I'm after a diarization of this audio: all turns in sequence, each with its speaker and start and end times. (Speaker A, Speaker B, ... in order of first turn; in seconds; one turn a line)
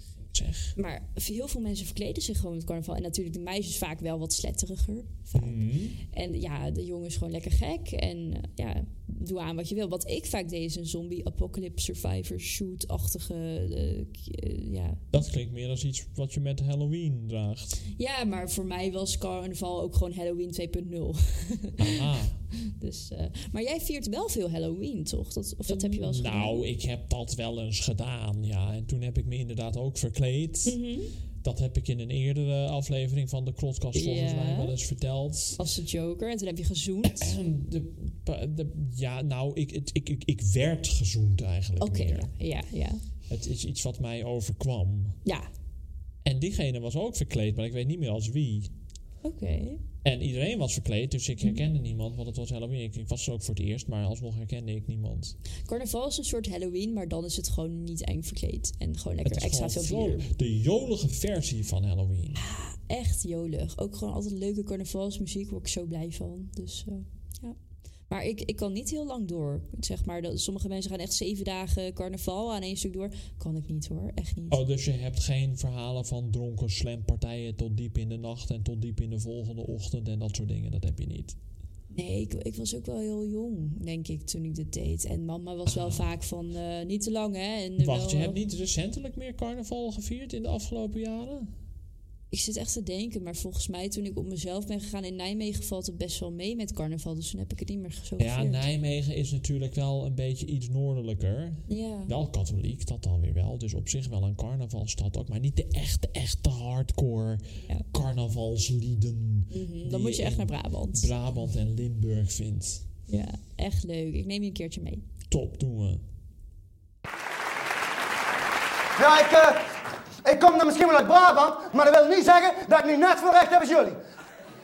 Speaker A: 0.3-0.7
Speaker B: 0.8-15.1
Speaker A: 5.3-6.0
Speaker A: 15.1-17.8
Speaker B: 18.0-22.1
Speaker A: 21.8-22.4
Speaker B: 22.6-26.6
Speaker A: 25.7-30.8
Speaker B: 30.6-31.1
Speaker A: 31.4-35.6
Speaker B: 33.9-34.7
Speaker B: 35.6-37.4
Speaker A: 37.1-42.3
Speaker B: 41.8-43.0
Speaker A: 43.3-45.2
Speaker A: 46.2-48.7
Speaker B: 49.2-49.8
Speaker A: 50.0-55.3
Speaker B: 55.7-60.2
Speaker A: 59.2-62.4
Speaker B: 62.3-67.5
Speaker B: 68.1-74.7
Speaker A: 74.5-81.4
Speaker B: 81.9-88.3
Speaker A: 85.7-86.1
Speaker A: 87.8-91.5
Speaker B: 92.3-98.6
Speaker A: 98.2-112.8
Speaker B: 101.7-102.1
Speaker B: 109.5-111.1
Speaker B: 113.1-115.0
Speaker A: 115.3-116.0
Speaker C: 119.0-119.7
Speaker C: 120.2-124.0